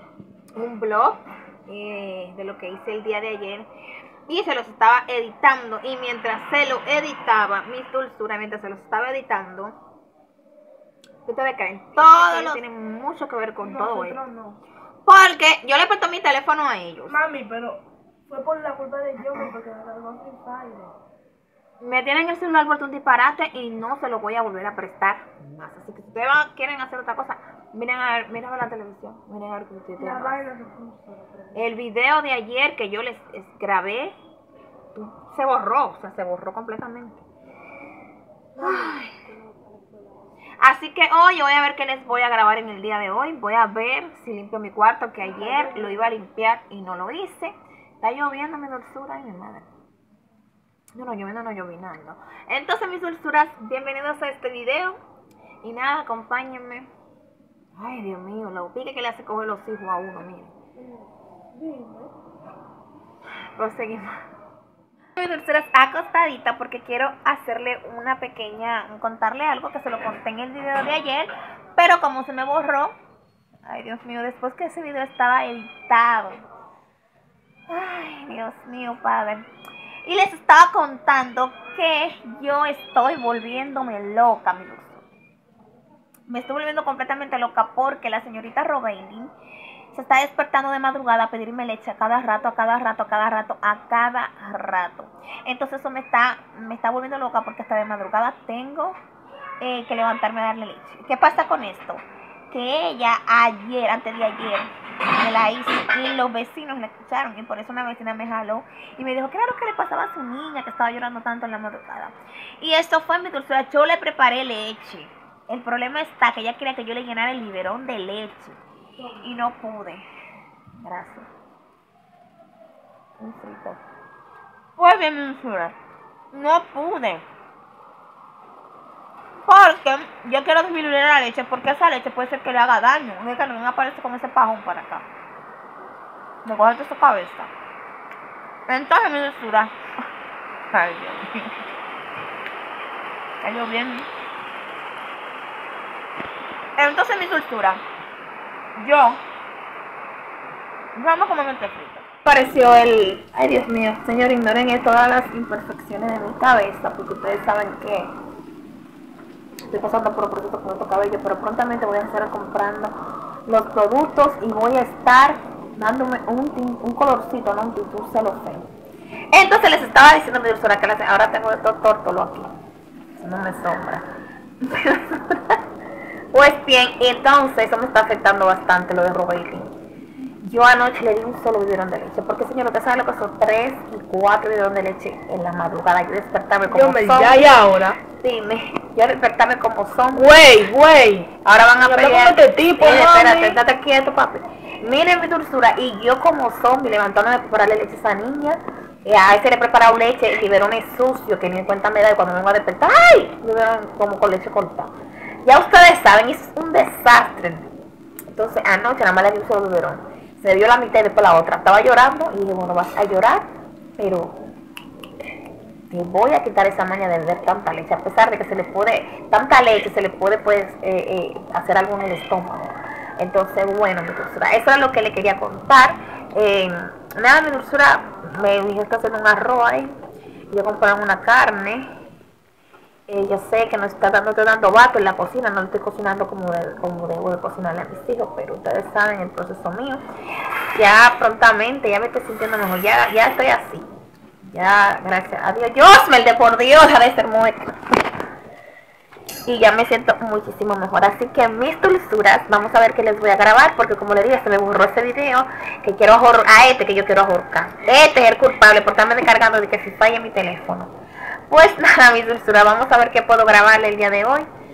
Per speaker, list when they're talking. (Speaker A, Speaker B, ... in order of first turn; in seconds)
Speaker A: 0.6-3.7, 4.3-9.8, 11.2-14.2, 15.1-17.2, 21.8-30.5, 31.5-34.1, 34.9-37.2, 38.6-39.1, 40.6-49.7, 50.9-55.0, 55.6-56.9, 57.8-60.5, 63.5-64.1, 65.2-72.9, 73.7-76.4, 77.7-79.5, 80.0-85.0, 86.3-89.3, 89.9-99.0, 99.6-120.0, 120.8-121.3, 123.2-123.8, 124.8-125.8, 126.3-127.2, 129.4-135.1, 136.4-137.5, 138.7-139.7, 140.7-141.5, 143.4-144.1, 146.8-147.8, 148.8-149.2, 150.9-158.1, 159.7-162.9, 163.4-168.7, 169.3-172.5, 173.2-174.1, 174.6-175.6, 176.3-179.7, 180.4-187.6, 188.1-190.3, 191.4-204.9, 205.4-207.7, 208.3-214.3, 215.9-229.9, 230.5-231.9, 233.1-240.0, 240.7-243.9, 244.4-247.8, 249.4-260.9, 261.5-264.5
Speaker B: 12.3-12.6, 13.6-14.6, 17.1-20.9, 30.0-31.5, 38.6-39.0, 61.6-62.1, 186.7-188.0, 190.1-193.6